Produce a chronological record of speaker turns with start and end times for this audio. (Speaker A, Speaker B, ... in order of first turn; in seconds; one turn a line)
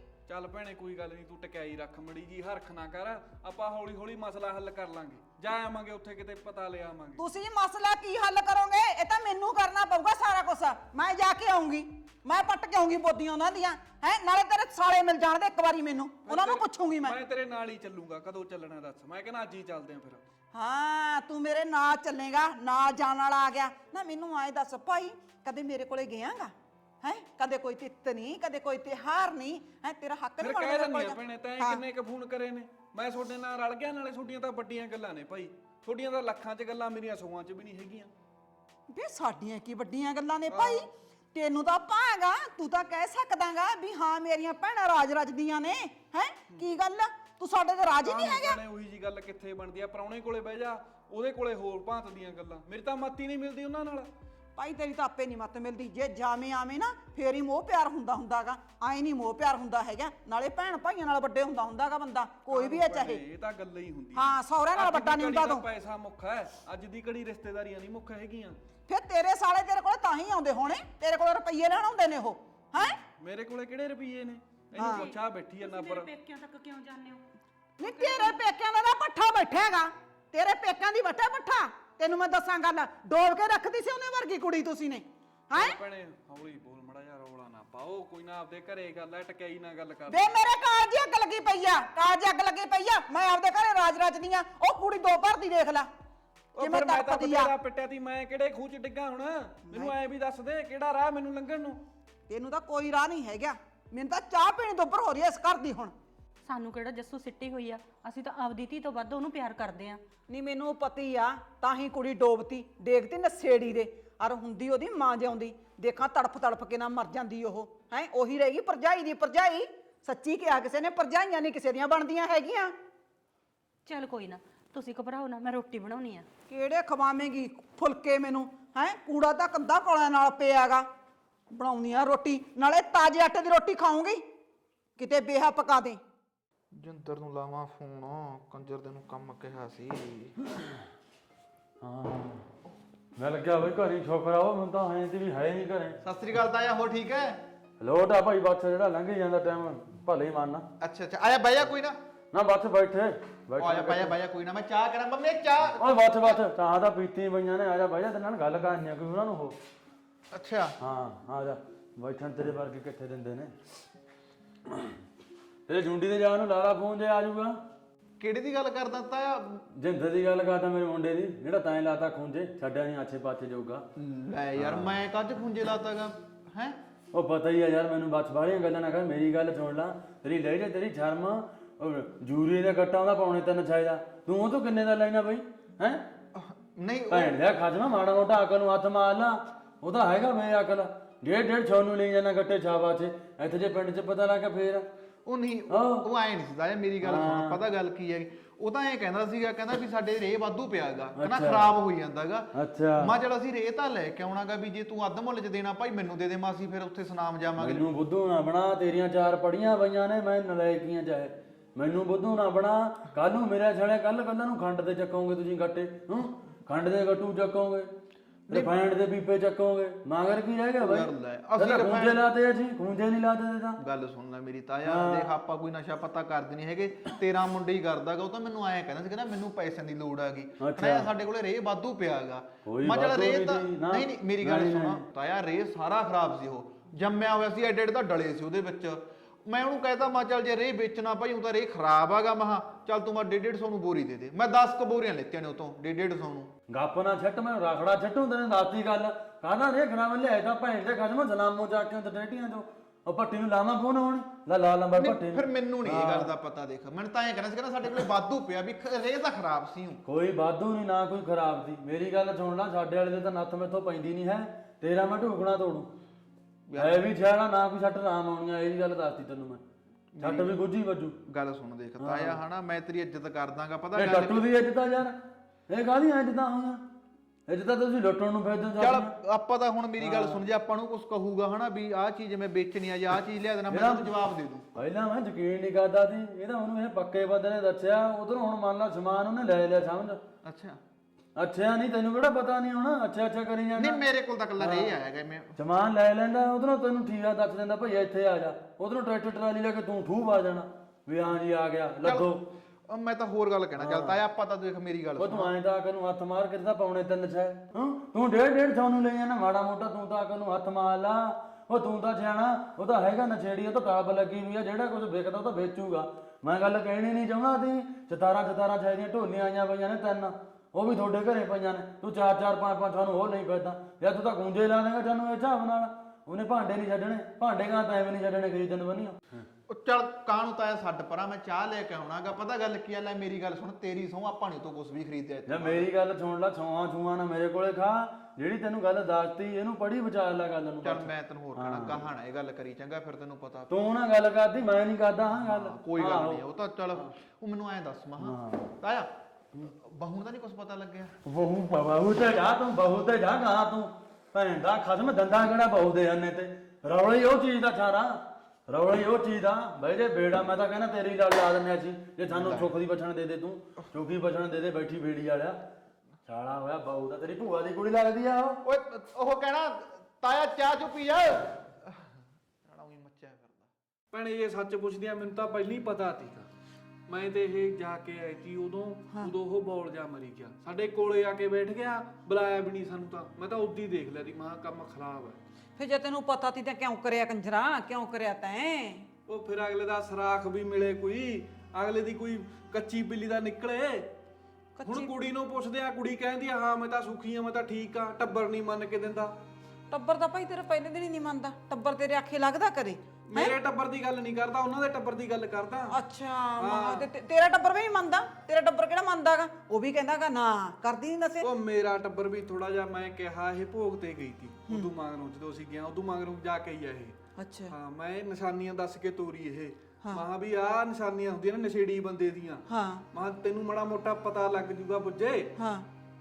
Speaker A: 0.3-7.2
Speaker B: 7.2-17.2
Speaker A: 16.3-20.2
Speaker B: 20.5-31.8
Speaker A: 30.4-38.1
Speaker B: 38.9-48.6
Speaker A: 40.5-40.9
Speaker A: 48.0-54.1
Speaker B: 54.6-63.2
Speaker A: 62.5-68.6
Speaker B: 64.2-65.7
Speaker B: 68.9-73.0
Speaker A: 72.8-76.1
Speaker B: 74.8-75.1
Speaker C: 74.8-77.2
Speaker B: 77.8-85.8
Speaker C: 77.9-78.4
Speaker A: 85.5-90.3
Speaker B: 90.1-95.9
Speaker A: 96.5-101.8
Speaker B: 96.6-97.5
Speaker B: 99.7-100.0
Speaker B: 102.3-105.9
Speaker C: 106.5-110.0
Speaker B: 110.3-122.8
Speaker C: 123.9-126.3
Speaker B: 126.5-130.9
Speaker B: 131.5-134.2
Speaker B: 135.0-136.0
Speaker D: 136.7-140.3
Speaker E: 141.8-142.5
Speaker E: 143.2-146.0
Speaker D: 146.0-147.4
Speaker E: 147.8-150.7
Speaker D: 150.8-152.0
Speaker E: 152.3-154.2
Speaker D: 153.6-156.4
Speaker E: 155.8-159.6
Speaker D: 160.3-160.8
Speaker E: 160.8-163.6
Speaker E: 164.7-165.0
Speaker E: 165.7-167.6
Speaker D: 168.2-169.6
Speaker E: 169.7-173.9
Speaker D: 174.0-176.8
Speaker E: 174.6-175.0
Speaker E: 177.1-186.1
Speaker D: 186.3-187.4
Speaker E: 187.1-194.9
Speaker D: 195.2-207.9
Speaker E: 195.7-196.1
Speaker E: 197.0-197.6
Speaker E: 201.2-201.7
Speaker E: 202.5-203.1
Speaker E: 207.6-217.9
Speaker D: 218.5-218.8
Speaker E: 218.5-223.8
Speaker D: 220.8-222.2
Speaker D: 223.8-246.5
Speaker E: 224.9-225.3
Speaker E: 230.6-231.1
Speaker E: 232.7-235.0
Speaker E: 246.7-256.3
Speaker D: 255.0-260.0
Speaker E: 260.1-265.9
Speaker D: 266.7-267.1
Speaker E: 266.8-269.6
Speaker D: 270.1-270.6
Speaker E: 270.2-271.2
Speaker D: 271.2-274.5
Speaker E: 272.0-272.4
Speaker E: 274.0-276.9
Speaker E: 277.5-279.1
Speaker D: 278.8-284.7
Speaker E: 280.0-280.4
Speaker E: 283.7-284.1
Speaker E: 284.7-290.2
Speaker D: 290.4-290.8
Speaker E: 291.4-294.0
Speaker D: 293.8-295.5
Speaker E: 294.6-295.0
Speaker E: 295.6-302.4
Speaker D: 302.0-302.3
Speaker D: 302.9-305.5
Speaker E: 303.8-304.2
Speaker E: 305.2-329.5
Speaker D: 329.7-335.9
Speaker E: 335.5-342.1
Speaker D: 340.8-343.8
Speaker E: 343.7-346.4
Speaker D: 345.3-351.1
Speaker E: 348.2-348.7
Speaker E: 351.2-365.6
Speaker D: 362.3-362.7
Speaker E: 366.2-368.6
Speaker D: 368.6-372.1
Speaker D: 372.6-373.7
Speaker A: 374.1-376.5
Speaker A: 377.1-385.4
Speaker B: 385.8-389.1
Speaker A: 389.3-394.1
Speaker B: 394.8-395.1
Speaker A: 394.9-399.4
Speaker B: 399.9-403.6
Speaker A: 403.3-406.0
Speaker B: 405.9-411.5
Speaker A: 406.6-407.1
Speaker A: 411.4-417.2
Speaker B: 417.4-417.7
Speaker A: 417.7-425.5
Speaker B: 422.7-423.0
Speaker B: 425.6-425.9